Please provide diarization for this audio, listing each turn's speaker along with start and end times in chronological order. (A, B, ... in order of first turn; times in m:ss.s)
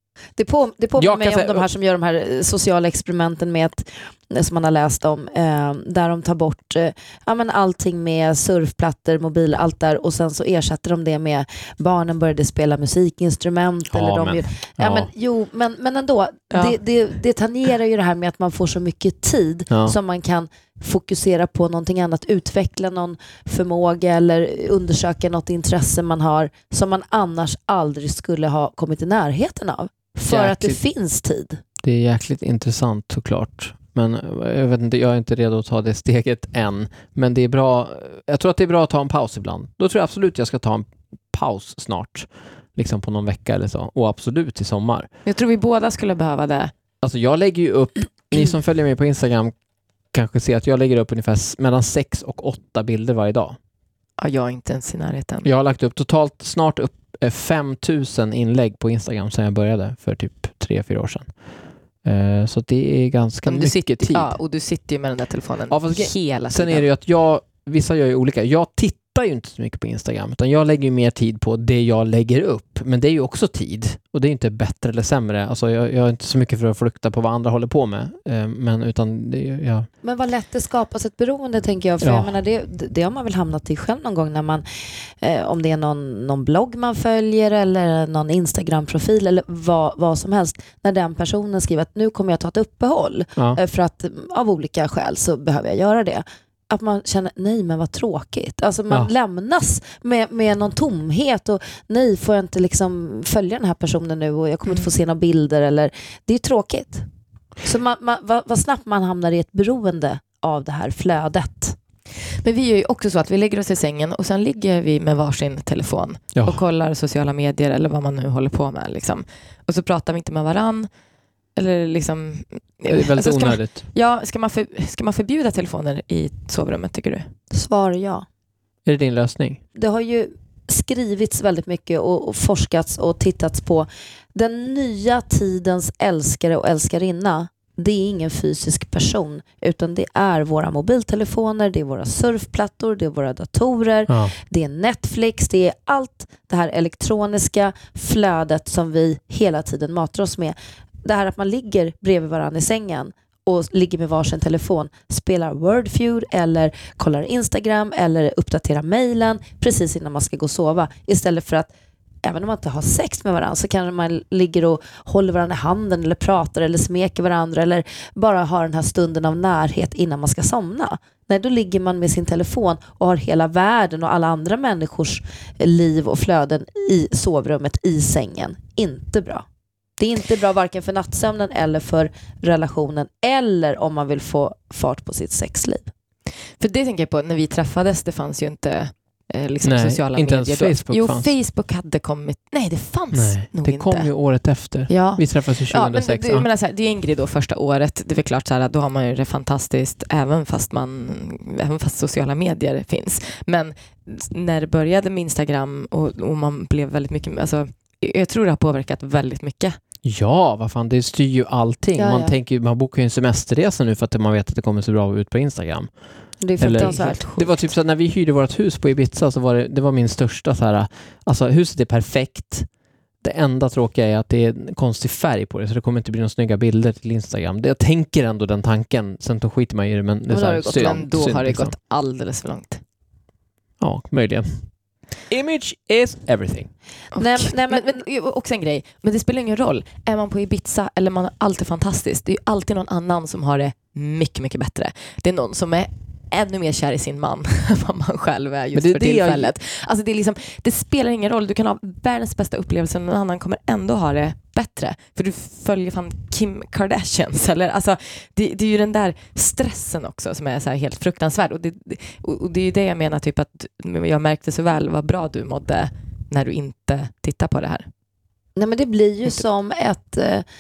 0:00.4-0:31.6 A
0:01.0-0:01.7 B
0:13.9-0:15.1 B
0:16.5-0:16.8 C
0:19.7-0:20.0 B
0:30.3-0:30.8 B
0:31.8-0:45.1 B
0:45.3-0:46.7 C
0:47.0-0:49.5 B
0:50.1-0:53.6 B
0:54.2-0:55.5 C
0:55.4-1:01.3 B
1:02.0-1:04.4 B
1:03.5-1:06.8 C
1:05.7-1:19.9 B
1:20.0-1:24.6 A
1:22.0-1:22.3 B
1:25.2-1:47.1 A
1:47.6-1:51.8 A
1:52.4-2:00.9 C
2:01.6-2:07.3 C
2:02.9-2:03.8 B
2:07.5-2:08.2 A
2:08.9-2:09.6 B
2:09.8-2:41.7 A
2:42.2-2:59.4 A
3:00.0-3:05.9 A
3:06.6-3:14.1 C
3:09.6-3:11.3 B
3:13.1-3:16.5 B
3:14.9-3:29.8 C
3:30.0-3:35.9 B
3:32.0-3:32.3 A
3:36.4-3:37.2 A
3:36.6-3:42.7 B
3:36.7-3:37.5 C
3:43.2-3:51.7 B
3:50.3-3:51.0 A
3:50.7-3:52.8 C
3:53.8-3:54.7 B
3:55.3-3:56.7 B
3:57.2-4:27.9 C
3:57.2-3:58.0 A
4:08.8-4:09.5 B
4:28.6-4:30.4 A